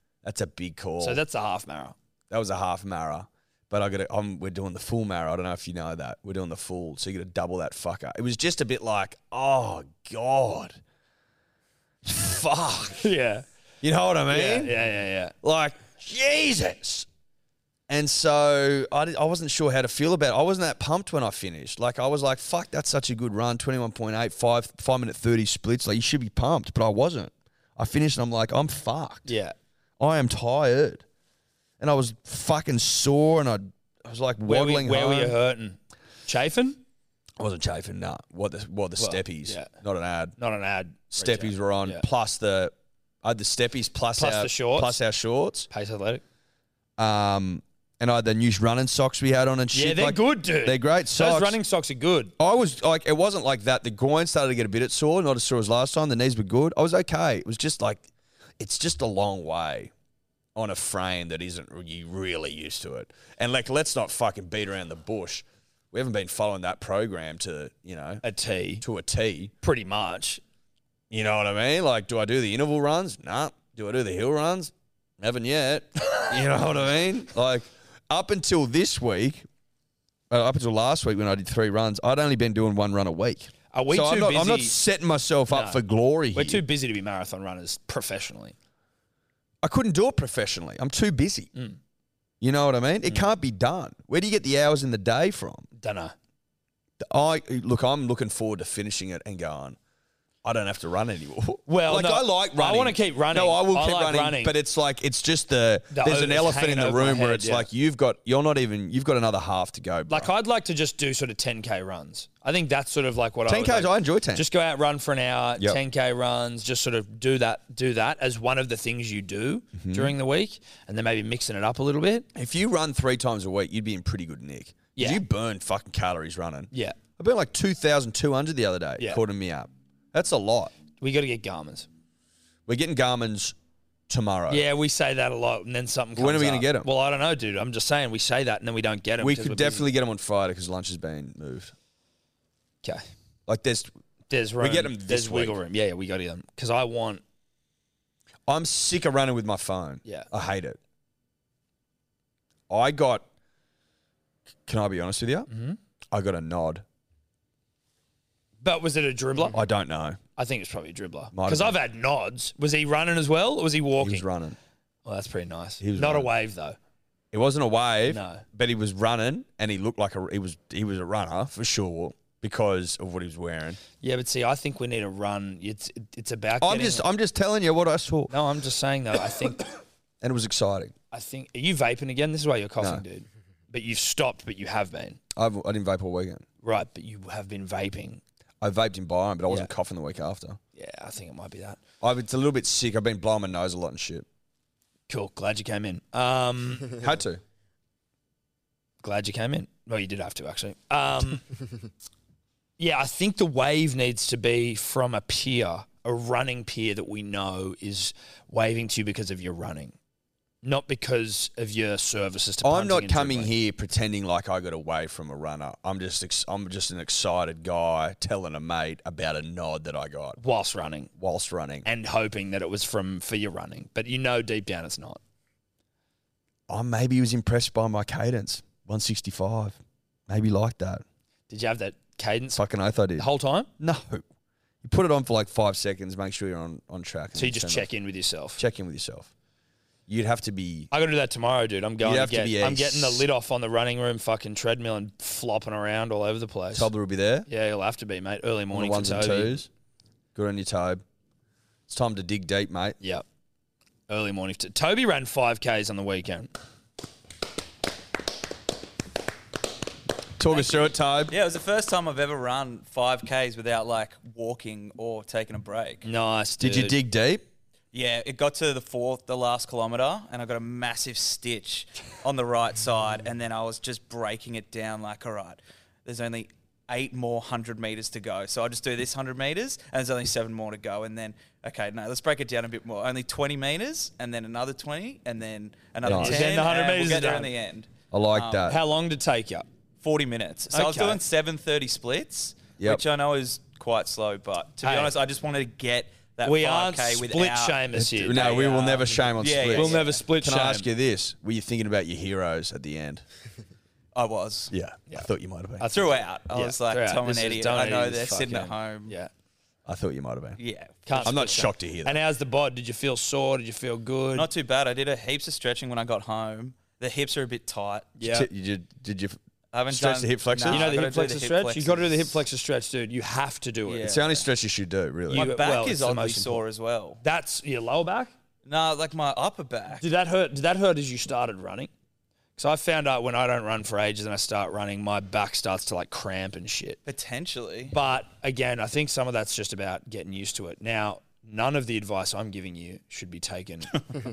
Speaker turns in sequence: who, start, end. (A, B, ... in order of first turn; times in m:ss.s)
0:00.2-0:01.2 A
0:01.0-0:02.0 B
0:02.3-0:10.8 A
0:12.0-0:13.0 A
0:13.0-0:13.4 B
0:13.8-0:14.8 A
0:14.3-0:15.3 B
0:15.4-0:17.1 A
0:17.9-0:29.3 A
0:29.2-0:29.5 B
0:30.0-0:31.0 A
0:31.8-0:35.4 A
0:34.4-0:36.8 B
0:37.4-0:40.4 A
0:39.0-0:39.7 B
0:40.4-0:42.0 B
0:41.1-0:45.7 A
0:44.2-0:45.0 B
0:45.7-0:46.2 B
0:47.0-0:51.6 A
0:49.7-0:52.3 B
0:52.4-0:58.1 A
0:58.6-0:59.9 A
1:00.5-1:08.2 A
1:08.2-1:08.8 B
1:08.8-1:09.5 A
1:09.6-1:10.4 B
1:11.1-1:19.4 A
1:20.3-1:26.6 A
1:23.7-1:24.8 B
1:25.5-1:25.8 B
1:26.3-1:28.5 B
1:29.6-1:31.5 A
1:32.4-1:35.7 A
1:35.8-1:36.1 B
1:37.0-1:39.8 A
1:40.4-1:50.3 A
1:41.7-1:44.5 B
1:45.9-1:47.7 B
1:50.1-2:02.3 B
1:53.5-1:54.5 A
1:59.8-2:00.1 A
2:02.3-2:10.7 A
2:05.0-2:05.2 B
2:06.7-2:07.0 B
2:11.0-2:11.9 B
2:12.7-2:13.5 A
2:14.1-2:14.7 A
2:14.5-2:19.8 B
2:16.2-2:16.9 A
2:19.2-2:21.7 A
2:23.5-2:23.9 A
2:24.3-2:27.2 B
2:24.6-2:25.6 A
2:28.5-2:30.8 A
2:32.7-2:33.2 A
2:34.7-2:35.5 A
2:35.5-2:35.8 B
2:36.1-2:36.8 A
2:38.6-2:39.6 B
2:39.5-2:40.2 A
2:40.4-2:44.3 B
2:41.3-2:41.8 A
2:44.0-2:44.6 A
2:45.0-2:46.8 B
2:45.8-2:46.3 A
2:47.3-2:53.8 A
2:48.1-2:48.4 B
2:54.0-2:57.0 B
2:56.6-2:58.3 A
2:58.3-2:59.7 B
3:00.2-3:00.9 A
3:01.1-3:05.2 B
3:05.3-3:06.4 A
3:06.6-3:08.2 B
3:08.6-3:10.6 A
3:10.7-3:11.8 B
3:12.0-3:14.2 A
3:15.1-3:16.9 B
3:17.0-3:17.4 A
3:19.0-3:21.4 B
3:22.8-3:30.0 B
3:30.6-3:33.5 B
3:32.6-3:40.4 A
3:40.4-3:41.1 B
3:41.2-3:41.9 A
3:41.8-3:45.2 B
3:46.7-3:51.0 A
3:51.5-3:52.6 B
3:52.5-3:53.3 A
3:53.2-3:53.7 B
3:53.8-3:54.2 A
3:54.8-3:57.9 A
3:57.3-3:58.6 B
3:58.6-3:59.3 A
4:00.1-4:00.9 A
4:00.9-4:06.9 B
4:02.0-4:03.2 A
4:06.7-4:07.5 A
4:07.5-4:09.6 B
4:08.7-4:09.7 A
4:10.3-4:11.0 A
4:11.9-4:13.0 A
4:14.1-4:16.5 B
4:20.4-4:21.3 A
4:20.5-4:26.0 C
4:26.0-4:27.0 B
4:26.6-4:27.4 A
4:27.9-4:48.7 C
4:46.0-4:46.5 A
4:46.1-4:47.5 B
4:48.1-4:48.8 A
4:48.7-4:49.7 B
4:50.0-5:00.2 C
4:50.7-4:51.2 B
4:52.8-4:53.0 A
4:54.8-4:55.1 B
4:56.4-5:00.9 B
4:57.9-5:03.2 A
5:04.1-5:04.7 C
5:04.7-5:06.0 A
5:05.8-5:09.3 B
5:05.9-5:09.1 C
5:09.8-5:10.6 A
5:10.6-5:11.6 C
5:11.0-5:14.5 B
5:11.2-5:12.2 A
5:14.3-5:18.1 C
5:18.2-5:18.5 B
5:18.2-5:20.8 A
5:19.7-5:22.4 C
5:20.7-5:24.4 B
5:23.8-5:24.3 C
5:24.0-5:25.5 A
5:25.3-5:27.2 C
5:25.3-5:26.6 B
5:27.2-5:28.3 B
5:28.6-5:30.0 C
5:30.0-5:31.9 B
5:32.6-5:37.0 B
5:37.0-5:37.9 C
5:37.9-5:44.0 B